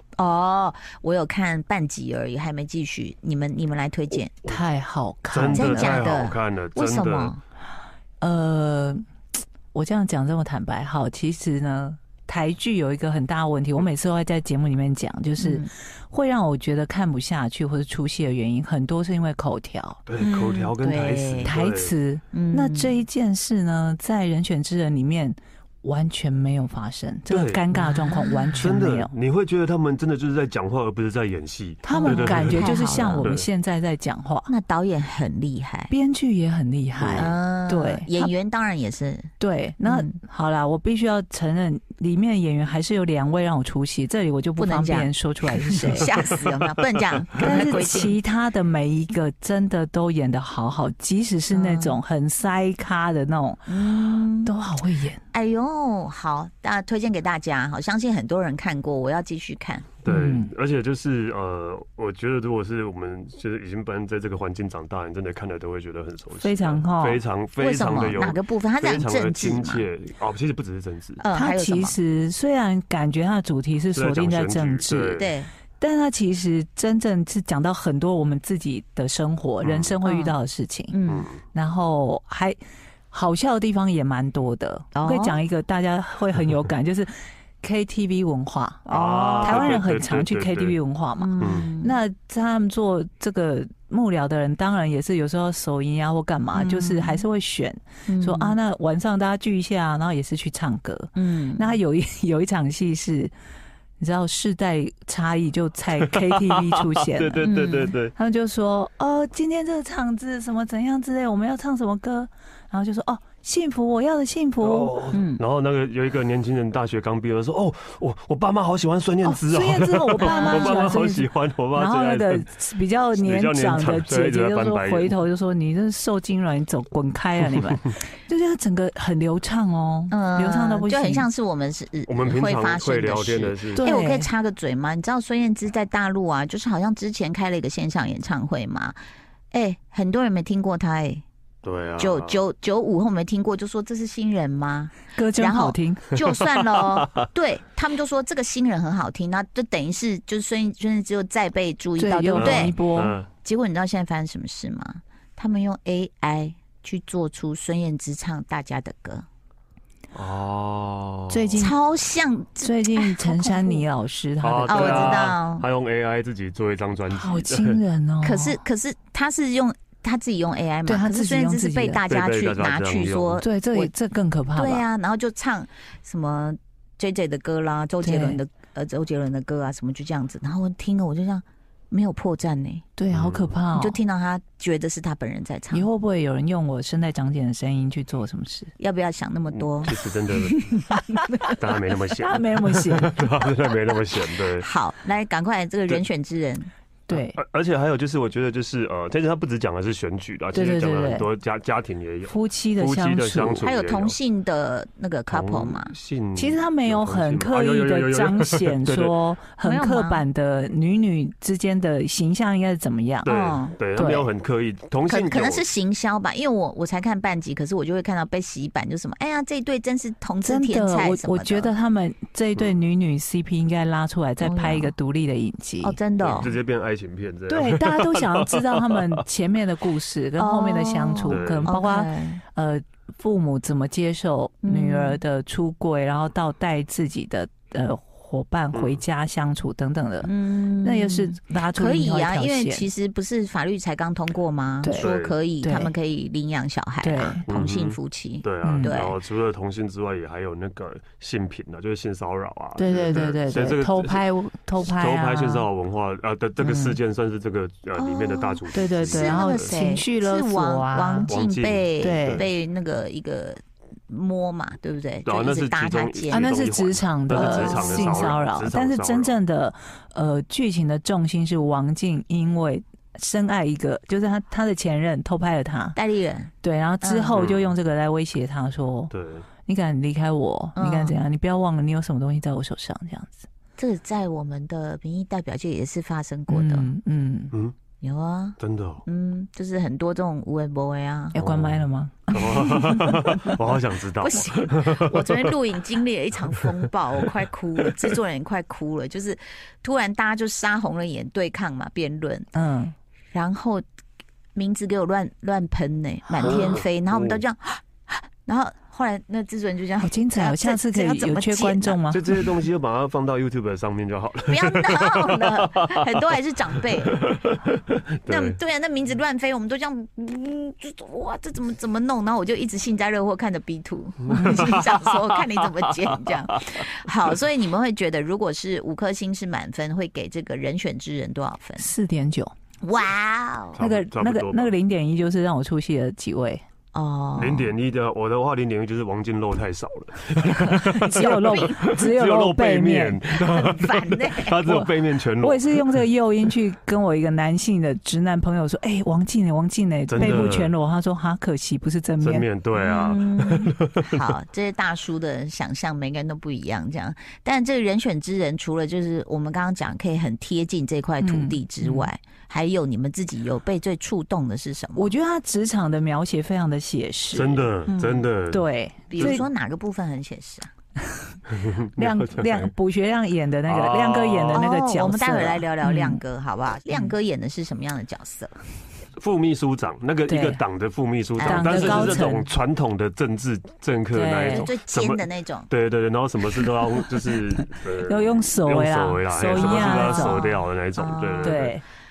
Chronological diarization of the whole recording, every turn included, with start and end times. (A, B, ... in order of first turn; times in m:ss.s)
0:00.2-0:04.3 A
0:04.4-0:06.0 B
0:05.3-0:07.3 C
0:05.5-0:07.4 A
0:08.2-0:09.0 B
0:09.7-0:20.0 B
0:15.4-0:15.7 A
0:20.1-0:21.9 C
0:20.2-0:21.6 A
0:21.4-0:29.1 B
0:22.3-0:22.9 A
0:27.3-0:27.6 C
0:27.7-0:28.7 A
0:28.6-0:33.5 C
0:31.8-0:34.5 B
0:31.9-0:33.3 A
0:34.5-0:35.9 A
0:35.9-0:38.3 B
0:37.0-0:37.4 C
0:37.2-0:39.3 A
0:39.4-0:46.1 B
0:39.8-0:40.2 A
0:44.6-0:45.1 A
0:45.7-0:48.2 A
0:47.4-0:53.7 B
0:51.5-0:52.0 A
0:53.7-0:54.5 A
0:54.4-0:55.2 B
0:55.3-0:59.9 A
1:00.0-1:11.2 C
1:00.1-1:00.5 B
1:06.4-1:07.2 B
1:07.6-1:09.8 A
1:11.2-1:12.0 A
1:11.3-1:15.3 B
1:13.9-1:15.3 C
1:15.2-1:15.5 A
1:15.8-1:21.0 B
1:19.6-1:19.9 C
1:20.0-1:20.4 A
1:20.9-1:21.3 A
1:21.1-1:21.4 C
1:21.5-1:22.6 B
1:23.1-1:43.3 B
1:25.0-1:25.4 A
1:28.9-1:29.8 A
1:28.9-1:30.8 C
1:31.2-1:32.0 A
1:31.4-1:31.7 C
1:36.5-1:37.2 A
1:38.1-1:38.6 A
1:41.2-1:41.8 A
1:44.0-1:47.5 B
1:46.0-1:48.1 C
1:47.4-1:48.0 A
1:48.2-1:55.0 B
1:54.6-2:02.5 C
1:55.1-1:55.4 A
1:59.2-2:11.3 B
2:00.2-2:00.8 A
2:03.1-2:05.2 C
2:10.1-2:19.0 A
2:12.1-2:13.9 C
2:13.7-2:14.3 B
2:19.5-2:21.2 A
2:21.6-2:22.4 C
2:22.0-2:32.8 A
2:25.1-2:26.1 B
2:26.6-2:27.0 C
2:32.0-2:33.2 B
2:32.4-2:33.3 C
2:33.4-2:39.3 A
2:40.1-2:41.6 C
2:41.3-2:41.8 B
2:41.6-2:43.8 A
2:42.6-2:45.2 B
2:44.4-2:47.8 C
2:44.7-2:45.6 A
2:47.1-2:48.6 B
2:48.2-2:53.9 A
2:50.8-2:52.0 B
2:52.1-2:53.4 C
2:53.4-2:54.9 B
2:54.6-3:02.8 A
2:58.0-2:58.4 B
3:03.0-3:04.0 B
3:03.1-3:03.5 C
3:03.7-3:05.9 A
3:05.7-3:08.7 B
3:08.8-3:09.9 A
3:09.5-3:10.7 C
3:10.5-3:11.6 B
3:11.6-3:14.7 C
3:12.2-3:13.2 B
3:14.6-3:16.7 A
3:17.1-3:17.4 B
3:17.1-3:24.2 C
3:20.5-3:21.3 B
3:22.3-3:23.6 B
3:23.6-3:25.9 A
3:25.3-3:29.2 C
3:26.4-3:33.3 B
3:29.6-3:30.3 A
3:33.2-3:35.7 C
3:33.3-3:33.8 A
3:34.0-3:34.3 B
3:35.1-3:41.7 A
3:40.4-3:46.5 B
3:44.4-3:44.9 A
3:45.8-3:46.6 A
3:46.2-3:49.2 C
3:47.5-4:02.9 B
3:50.4-3:52.4 A
3:51.3-3:51.8 C
3:54.6-3:55.2 A
3:58.7-3:59.0 C
4:00.2-4:09.2 A
4:05.0-4:05.4 C
4:05.6-4:05.9 B
4:07.0-4:07.4 B
4:07.5-4:14.2 C
4:08.6-4:09.0 B
4:12.8-4:15.7 B
4:14.8-4:19.8 C
4:16.6-4:17.0 B
4:18.0-4:26.5 A
4:18.7-4:21.3 B
4:21.3-4:22.5 C
4:22.0-4:22.4 B
4:25.2-4:29.4 C
4:26.3-4:36.0 B
4:27.3-4:28.4 A
4:36.0-4:36.5 A
4:36.6-4:39.1 B
4:37.0-4:37.5 A
4:37.4-4:37.7 C
4:39.1-4:39.5 C
4:39.7-4:43.5 B
4:40.8-4:41.2 A
4:43.8-4:46.9 A
4:46.5-4:47.5 B
4:48.0-4:51.4 A
4:48.6-4:49.0 C
4:51.4-4:53.6 B
4:51.4-4:55.5 C
4:52.5-4:53.4 A
4:54.2-5:02.5 A
4:56.5-4:56.9 C
5:02.5-5:03.0 B
5:03.3-5:03.8 A
5:04.6-5:12.0 A
5:06.4-5:07.4 C
5:06.4-5:06.8 B
5:10.0-5:12.5 B
5:12.1-5:16.0 C
5:14.5-5:17.2 A
5:17.1-5:18.6 C
5:18.3-5:31.9 A
5:24.3-5:24.8 B
5:24.3-5:25.6 C
5:31.8-5:32.5 B
5:32.8-5:33.8 A
5:33.8-5:34.8 C
5:33.8-5:36.6 B
5:36.9-5:37.7 A
5:37.4-5:46.0 C
5:40.8-5:43.2 B
5:41.1-5:41.9 A
5:43.3-5:44.6 A
5:44.6-5:52.5 B
5:50.1-5:50.8 C
5:50.2-5:50.5 A
5:52.2-5:54.2 C
5:52.7-6:05.2 A
6:01.2-6:02.1 B
6:05.0-6:07.9 B
6:07.3-6:09.4 C
6:07.9-6:08.3 A
6:08.5-6:09.4 B
6:09.1-6:10.7 A
6:11.5-6:12.7 C
6:12.0-6:16.2 B
6:13.7-6:14.7 C
6:14.5-6:18.5 A
6:16.9-6:17.2 B
6:19.2-6:31.8 C
6:20.3-6:20.6 B
6:21.4-6:22.3 A
6:21.4-6:22.5 B
6:24.1-6:24.7 B
6:24.4-6:25.7 A
6:27.6-6:30.5 B
6:29.5-6:31.7 A
6:31.4-6:31.8 B